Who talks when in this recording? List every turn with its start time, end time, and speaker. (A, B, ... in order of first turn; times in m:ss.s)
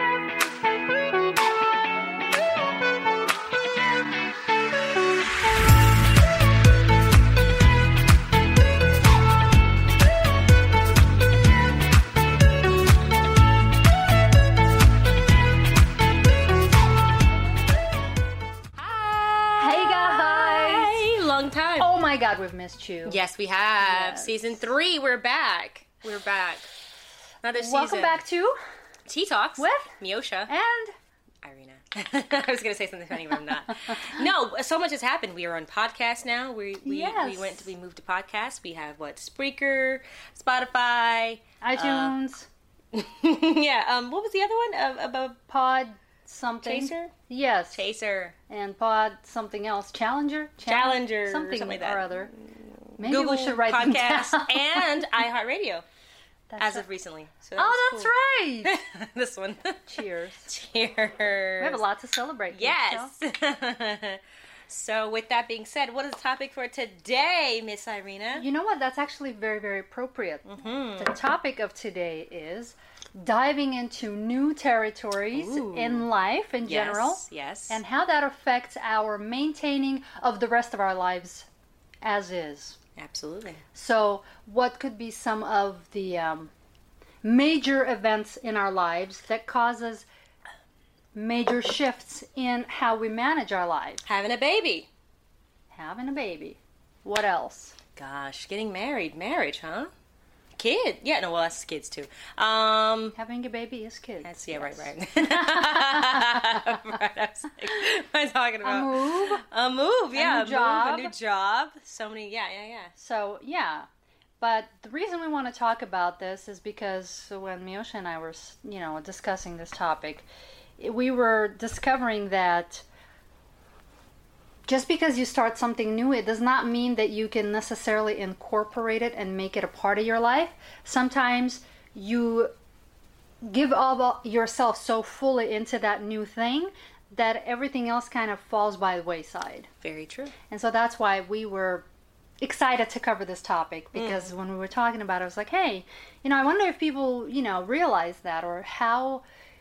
0:18.8-0:21.9 A
0:19.6-0:21.0 B
0:21.8-0:23.2 B
0:23.0-0:26.7 A
0:23.8-0:24.6 B
0:27.4-0:28.2 A
0:27.6-0:28.6 B
0:29.1-0:30.5 A
0:29.6-0:29.9 B
0:30.5-0:30.9 B
0:31.4-0:42.1 A
0:36.8-0:37.7 B
0:41.6-0:42.5 B
0:42.9-0:45.4 A
0:45.5-0:47.8 B
0:46.6-0:47.1 A
0:47.7-0:48.4 A
0:48.5-0:52.3 B
0:50.6-0:55.8 A
0:53.0-0:54.9 B
0:56.5-0:56.9 B
0:56.6-0:58.1 A
0:57.6-0:58.7 B
0:58.6-0:59.8 A
0:59.9-1:00.5 B
1:00.5-1:01.8 A
1:01.6-1:03.1 B
1:02.5-1:08.4 A
1:08.4-1:21.5 B
1:10.4-1:11.1 A
1:15.3-1:16.1 A
1:16.6-1:17.8 A
1:22.0-1:22.8 B
1:23.0-1:23.6 A
1:23.7-1:26.5 B
1:27.2-1:30.0 B
1:31.1-1:34.0 B
1:34.0-1:34.9 A
1:35.7-1:37.8 B
1:38.0-1:39.9 A
1:40.6-1:43.1 A
1:43.1-1:46.2 B
1:44.2-1:52.9 A
1:48.6-1:49.4 B
1:50.1-1:51.1 B
1:53.0-1:53.9 B
1:54.4-2:00.3 B
2:00.8-2:02.8 B
2:04.6-2:12.5 B
2:13.4-2:19.7 B
2:19.8-2:20.3 A
2:20.5-2:21.8 B
2:22.4-2:29.2 B
2:23.9-2:24.3 A